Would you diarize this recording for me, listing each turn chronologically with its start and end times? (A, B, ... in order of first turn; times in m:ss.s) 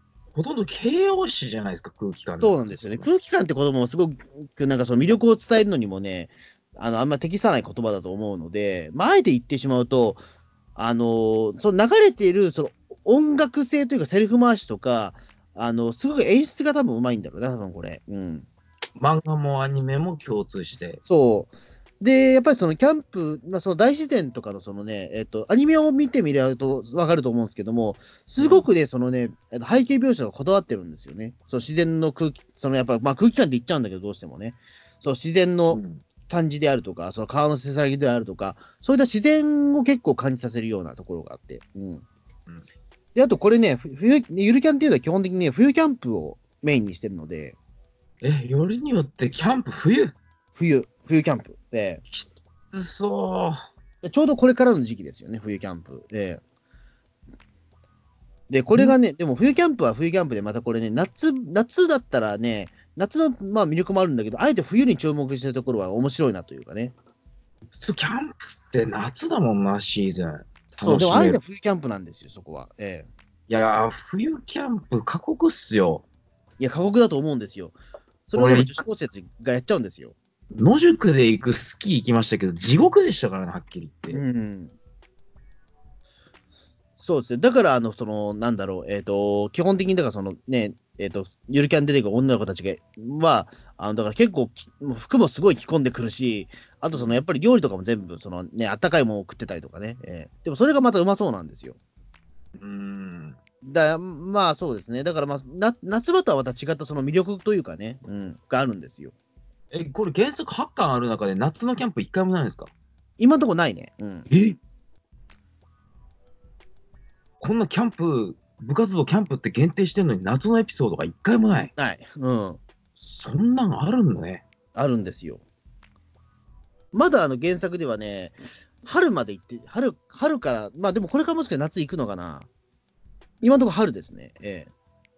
0:00.3-0:03.0 A
0:02.4-0:10.2 B
0:10.8-0:18.5 B
0:19.0-0:21.0 A
0:21.0-0:42.0 B
0:28.4-0:28.6 A
0:35.7-0:36.0 A
0:43.1-0:47.6 B
0:48.2-0:50.1 A
0:50.6-0:52.0 B
0:52.1-0:53.6 A
0:54.0-0:56.4 B
0:58.5-1:06.9 B
1:07.7-1:11.4 A
1:10.8-1:13.1 B
1:13.5-1:16.0 A
1:16.6-1:17.8 B
1:18.3-1:20.1 B
1:18.4-1:18.7 A
1:20.5-1:24.2 A
1:24.1-1:24.7 B
1:27.0-1:41.8 B
1:36.9-1:37.2 A
1:42.6-1:43.4 A
1:43.6-1:49.1 B
1:49.7-1:52.7 A
1:53.2-1:54.3 B
1:54.3-1:54.6 A
1:57.4-2:01.7 A
2:01.8-2:02.6 B
2:03.0-2:04.4 A
2:04.7-2:05.4 B
2:06.9-2:12.5 B
2:13.4-2:14.7 B